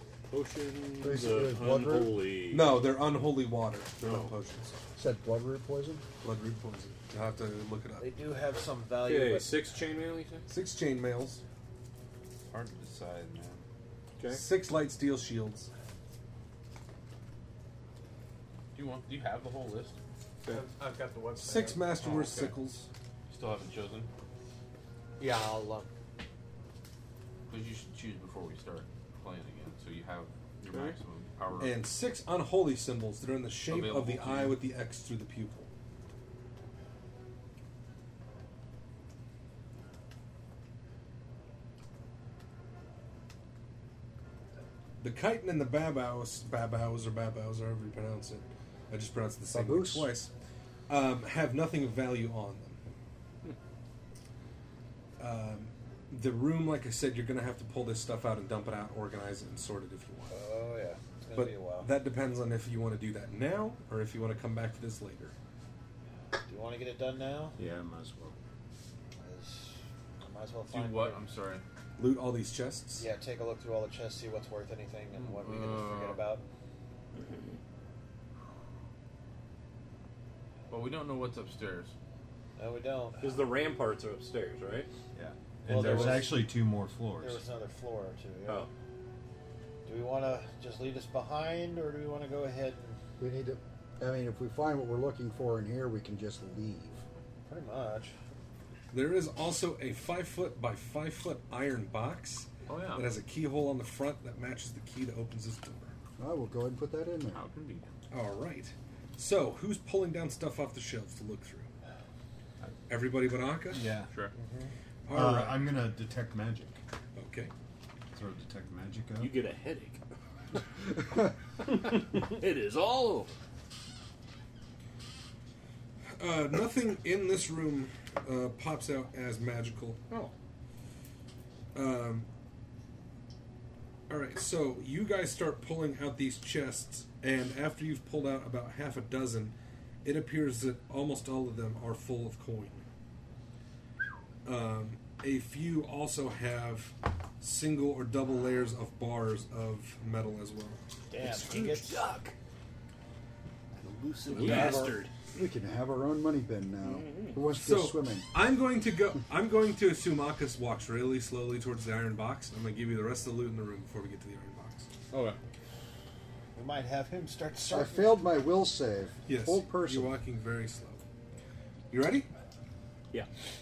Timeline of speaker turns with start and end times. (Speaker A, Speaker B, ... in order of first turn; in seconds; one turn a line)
Speaker A: 0.3-2.9
Speaker B: 1.0-2.3
Speaker C: 2.5-4.8
Speaker A: 4.0-4.3
Speaker B: 5.0-6.0
Speaker C: 6.2-8.1
Speaker D: 8.0-9.7
Speaker A: 9.0-10.4
Speaker C: 10.5-11.4
Speaker E: 12.5-13.6
Speaker A: 14.2-14.4
Speaker C: 14.3-15.7
Speaker E: 18.7-20.0
Speaker F: 20.5-22.4
Speaker C: 21.4-22.9
Speaker E: 22.0-22.3
Speaker E: 23.3-24.1
Speaker F: 25.2-25.9
Speaker E: 27.5-31.8
Speaker A: 30.6-30.9
Speaker C: 31.6-35.7
Speaker E: 33.7-34.5
Speaker C: 45.0-50.3
Speaker B: 49.5-50.1
Speaker C: 50.9-52.8
Speaker C: 55.2-60.4
Speaker D: 60.3-61.9
Speaker C: 61.3-65.3
Speaker D: 66.5-67.6
Speaker G: 67.6-68.3
Speaker D: 69.2-71.2
Speaker E: 70.7-71.6
Speaker C: 72.0-73.0
Speaker D: 73.0-76.4
Speaker E: 75.2-76.2
Speaker E: 80.7-81.9
Speaker D: 82.6-83.3
Speaker A: 83.2-84.9
Speaker D: 85.2-86.5
Speaker G: 85.2-87.4
Speaker A: 85.8-86.3
Speaker D: 87.2-88.7
Speaker D: 89.8-93.0
Speaker B: 93.2-97.0
Speaker D: 97.5-98.1
Speaker C: 98.9-105.9
Speaker B: 106.2-107.5
Speaker E: 107.3-107.8
Speaker C: 108.1-111.7
Speaker C: 112.9-114.0
Speaker G: 113.7-114.1
Speaker D: 114.4-114.7
Speaker C: 115.1-115.8
Speaker G: 115.1-116.8
Speaker C: 117.1-117.5
Speaker G: 118.1-119.4
Speaker A: 119.2-120.0
Speaker A: 121.6-123.3
Speaker C: 126.2-130.0
Speaker C: 131.7-132.3
Speaker C: 134.1-142.8
Speaker C: 144.4-150.8
Speaker D: 151.1-152.0
Speaker A: 151.3-152.3
Speaker D: 153.8-154.9
Speaker A: 154.2-155.1
Speaker B: 154.4-158.2
Speaker A: 156.8-157.4
Speaker C: 157.5-164.9
Speaker E: 165.1-165.4
Speaker D: 166.5-168.2
Speaker B: 167.7-170.2
Speaker C: 169.3-171.0
Speaker C: 171.9-172.3